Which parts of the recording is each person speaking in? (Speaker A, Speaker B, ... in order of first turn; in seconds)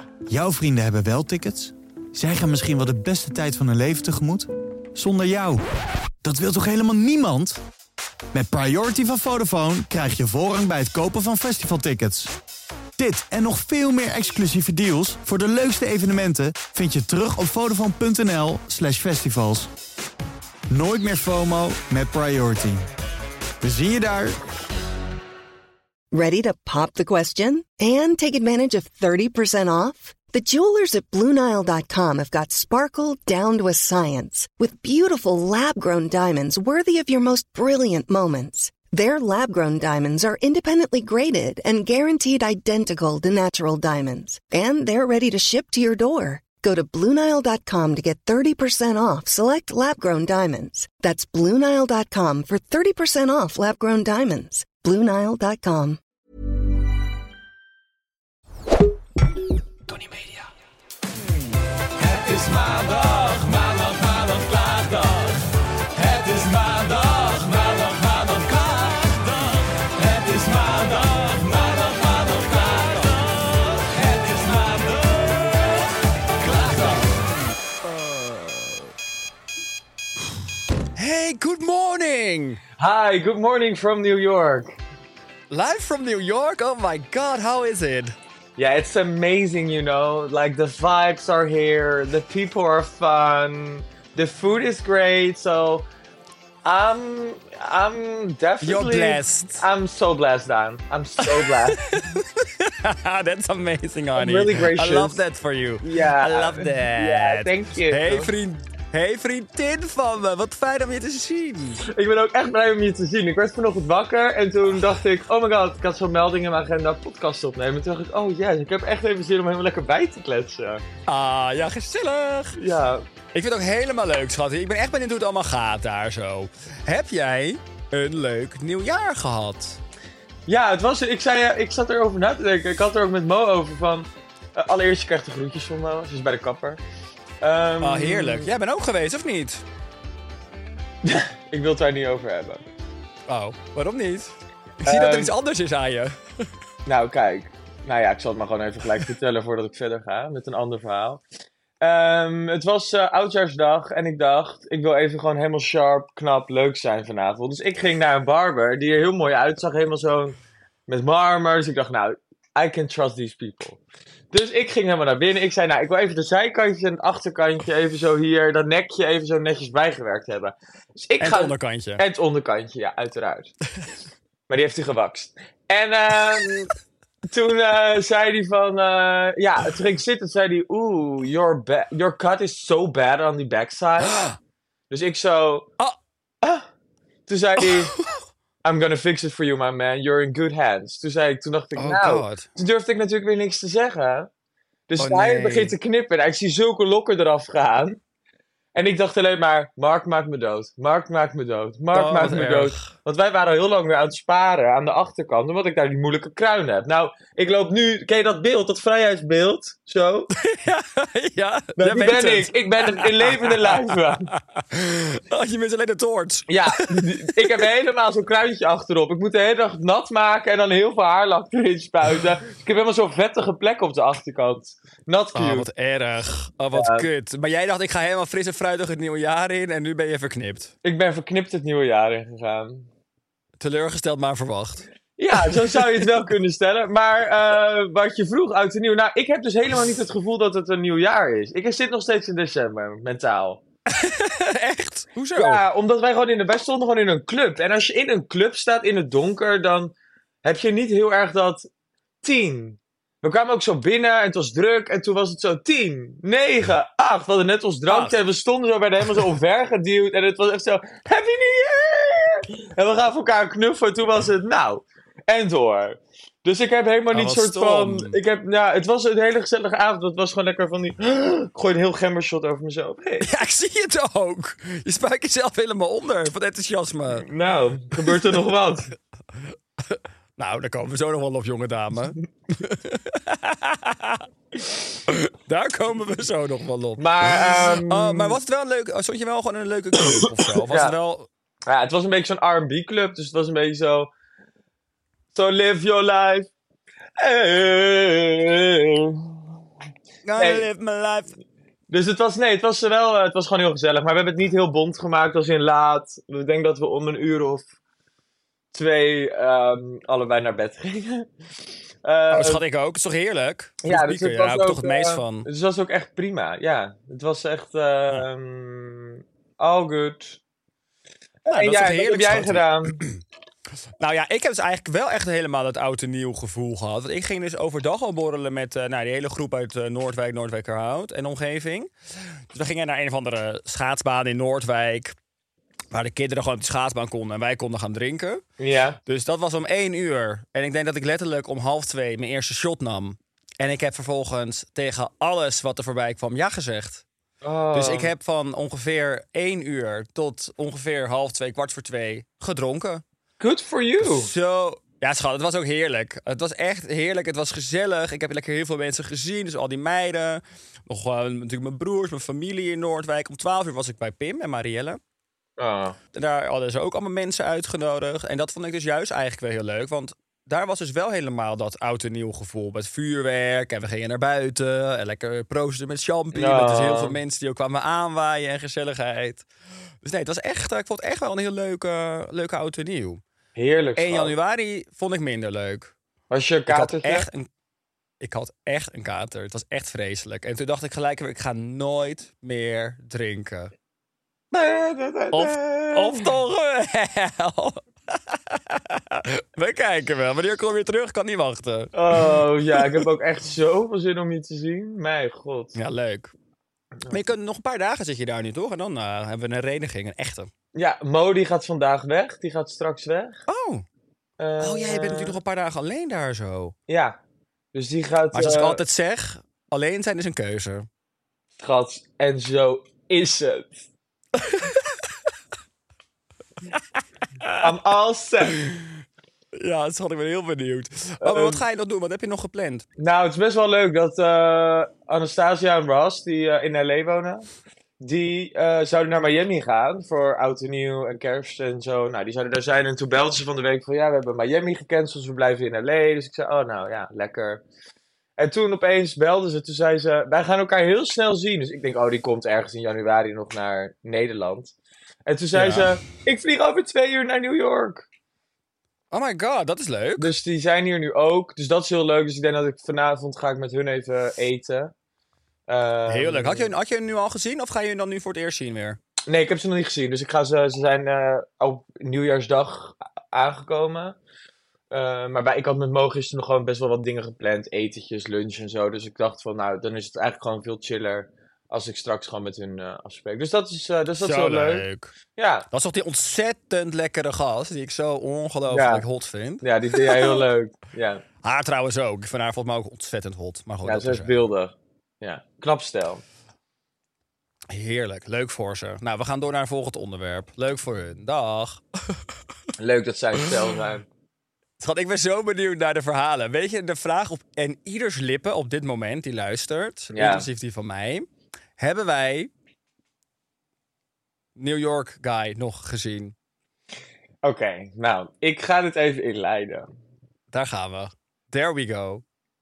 Speaker A: 0.2-5.6, 6.2-7.6, 8.3-12.3, 13.0-19.7, 20.7-22.9, 23.6-24.4
Speaker B: 26.1-56.0
Speaker C: 62.0-65.4, 66.0-75.7, 76.4-77.2, 77.8-78.9, 81.0-82.6, 85.5-88.1, 98.6-99.6, 101.2-111.8, 121.1-122.6, 123.3-129.8, 137.8-139.6, 143.3-144.3, 144.8-146.2, 171.2-172.0, 187.6-188.2, 191.8-192.5, 195.0-195.7, 201.9-202.9, 210.3-217.6, 225.3-230.7, 233.6-236.0, 243.9-245.6, 257.9-258.2, 267.1-268.2, 273.2-277.3, 279.9-284.2, 285.1-291.3, 300.2-301.3, 312.3-315.5, 321.5-323.2, 324.0-331.9, 332.5-335.1, 335.9-338.4, 339.1-347.0, 347.7-353.0, 354.0-365.0, 366.1-379.4, 380.0-383.2, 384.0-385.9, 386.7-387.5, 388.2-393.7, 395.3-403.0, 405.8-406.3, 407.1-410.5, 413.5-413.8, 414.6-416.7, 418.3-420.9, 424.4-424.9, 428.6-428.8, 429.5-432.9, 455.5-455.9, 459.1-460.3, 466.1-469.0, 484.2-485.1, 485.7-490.4, 491.4-494.4, 497.7-502.2, 504.8-511.3, 511.8-512.5, 514.5-516.3, 520.5-522.2
Speaker D: 82.8-84.8, 88.6-95.8, 96.6-101.8, 104.2-105.2, 105.8-108.3, 111.8-120.8, 122.6-123.0, 130.5-136.8, 137.4-138.5, 141.0-142.6, 144.8-145.3, 146.8-151.2, 151.8-160.4, 160.9-163.8, 164.3-173.5, 174.5-176.7, 177.3-184.2, 184.9-185.7, 186.4-186.7, 187.3-187.9, 188.6-194.3, 194.9-198.0, 198.7-210.3, 211.8-214.3, 216.5-225.7, 226.7-227.1, 230.8-232.9, 235.2-243.6, 245.3-249.9, 250.4-251.7, 252.2-273.3, 277.2-278.9, 287.0-288.4, 290.1-290.9, 291.7-294.1, 295.3-296.5, 297.2-299.3, 300.4-300.6, 301.9-307.7, 308.7-311.3, 312.0-312.6, 313.8-320.4, 321.4-323.0, 338.6-339.0, 347.4-348.1, 353.4-354.3, 365.6-366.0, 376.3-377.2, 383.5-384.3, 386.3-387.3, 394.5-396.3, 401.9-405.8, 410.7-413.4, 414.4-415.4, 416.9-417.1, 417.7-418.8, 421.6-423.9, 427.6-428.6, 431.2-431.6, 433.0-437.4, 438.0-447.6, 448.4-454.7, 455.2-458.1, 460.2-464.9, 465.7-466.7, 469.3-474.2, 474.9-484.9, 485.4-485.7, 488.7-489.0, 489.6-491.2, 493.8-496.2, 502.8-504.1, 510.1-510.5, 517.4-519.9